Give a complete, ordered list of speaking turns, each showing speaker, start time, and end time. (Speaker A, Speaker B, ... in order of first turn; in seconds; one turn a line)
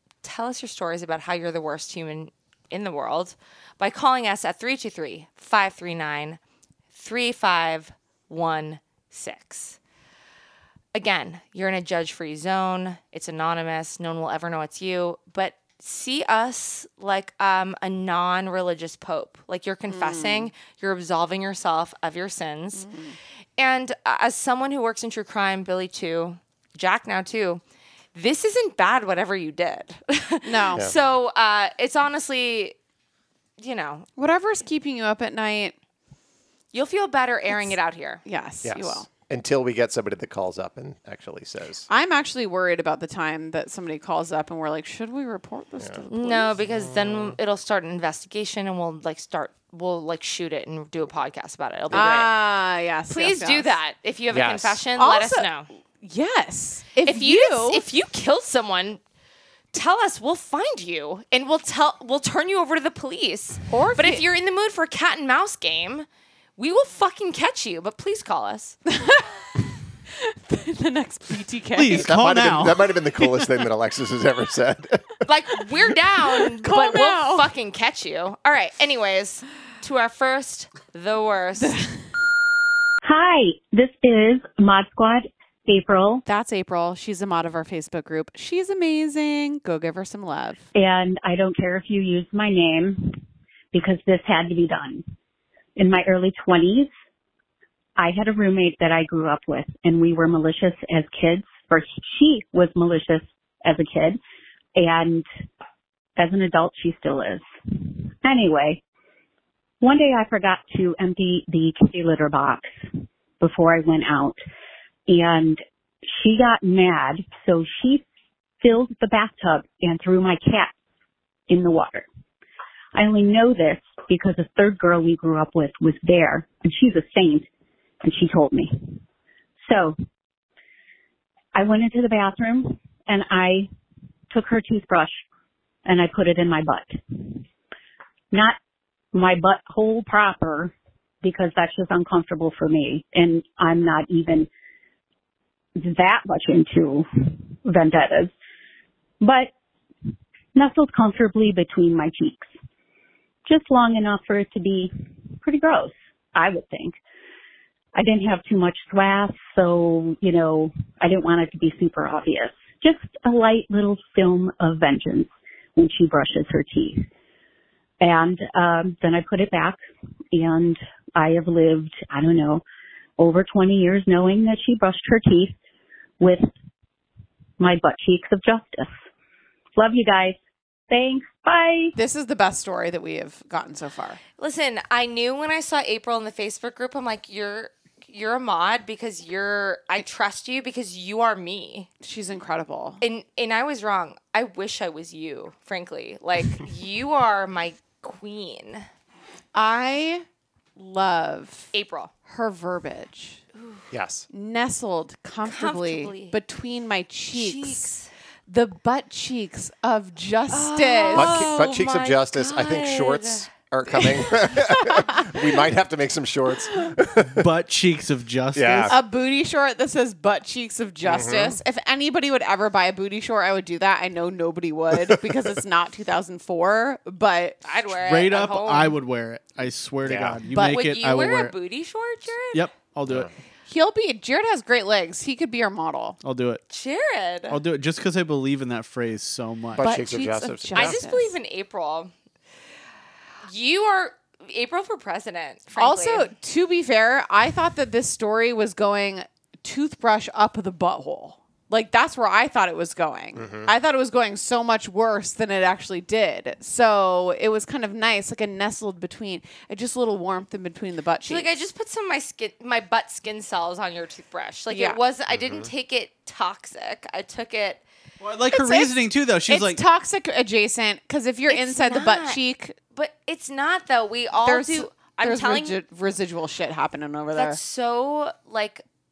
Speaker A: 0.2-6.4
Speaker A: 6.9-9.8
Speaker A: 10.9-22.9
Speaker B: 19.9-20.5
Speaker B: 22.8-23.2
Speaker A: 23.6-27.6
Speaker A: 28.1-32.8
Speaker B: 30.4-30.9
Speaker A: 33.6-34.1
Speaker B: 34.2-35.8
Speaker A: 36.7-38.2
Speaker B: 37.5-39.1
Speaker C: 38.6-41.9
Speaker B: 41.9-46.5
Speaker A: 46.1-52.4
Speaker C: 46.6-47.4
Speaker B: 51.9-53.8
Speaker A: 53.1-55.7
Speaker C: 54.3-54.8
Speaker B: 55.0-57.8
Speaker A: 57.0-59.0
Speaker A: 59.7-68.8
Speaker B: 63.7-64.2
Speaker B: 68.9-69.3
Speaker B: 70.1-72.1
Speaker D: 71.8-73.4
Speaker C: 71.9-75.1
Speaker A: 75.2-81.8
Speaker B: 76.3-77.5
Speaker B: 81.6-81.9
Speaker E: 83.0-86.2
Speaker B: 86.2-90.7
Speaker E: 90.7-93.2
Speaker E: 93.7-95.0
Speaker E: 95.8-96.9
Speaker E: 98.0-104.2
Speaker E: 104.8-105.3
Speaker E: 106.2-108.8
Speaker E: 109.8-112.7
Speaker E: 113.4-114.4
Speaker E: 115.1-118.0
Speaker E: 118.6-120.7
Speaker E: 121.5-122.1
Speaker E: 122.9-127.5
Speaker E: 128.0-129.0
Speaker E: 129.6-130.0
Speaker E: 131.6-133.7
Speaker E: 134.3-135.2
Speaker E: 135.8-137.4
Speaker E: 139.1-144.5
Speaker E: 145.8-148.3
Speaker E: 149.2-149.5
Speaker E: 150.6-152.5
Speaker E: 153.5-157.0
Speaker E: 157.9-167.1
Speaker E: 168.0-169.8
Speaker E: 170.3-172.6
Speaker E: 173.2-175.6
Speaker E: 176.2-176.5
Speaker E: 177.6-178.9
Speaker E: 179.8-180.4
Speaker E: 180.9-181.9
Speaker B: 182.0-184.2
Speaker A: 184.4-191.9
Speaker B: 192.0-193.0
Speaker A: 193.0-198.9
Speaker B: 199.5-200.2
Speaker B: 200.8-201.7
Speaker A: 201.7-202.1
Speaker B: 202.3-203.4
Speaker A: 203.6-203.8
Speaker C: 203.9-204.3
Speaker B: 204.3-207.9
Speaker A: 205.4-206.4
Speaker A: 207.3-208.1
Speaker B: 208.5-211.5
Speaker A: 210.5-214.1
Speaker C: 211.1-217.5
Speaker D: 217.3-219.0
Speaker C: 218.5-219.0
Speaker B: 218.9-227.6
Speaker C: 221.0-221.6
Speaker C: 224.9-225.5
Speaker A: 227.6-229.0
Speaker D: 227.9-231.5
Speaker C: 230.0-230.4
Speaker B: 230.5-230.9
Speaker A: 230.7-232.6
Speaker D: 232.5-233.3
Speaker C: 233.1-233.3
Speaker B: 233.7-236.2
Speaker D: 236.2-236.6
Speaker A: 236.7-237.6
Speaker D: 237.5-240.0
Speaker C: 239.7-241.0
Speaker B: 239.8-241.4
Speaker A: 240.7-242.1
Speaker A: 243.5-246.3
Speaker B: 245.8-261.6
Speaker C: 253.4-253.7
Speaker A: 261.3-267.8
Speaker B: 264.7-265.0
Speaker C: 265.3-265.7
Speaker D: 268.2-269.8
Speaker A: 268.5-268.9
Speaker B: 268.6-268.9
Speaker B: 269.5-272.8
Speaker A: 271.5-272.4
Speaker A: 272.9-275.8
Speaker B: 274.4-277.6
Speaker A: 277.4-278.8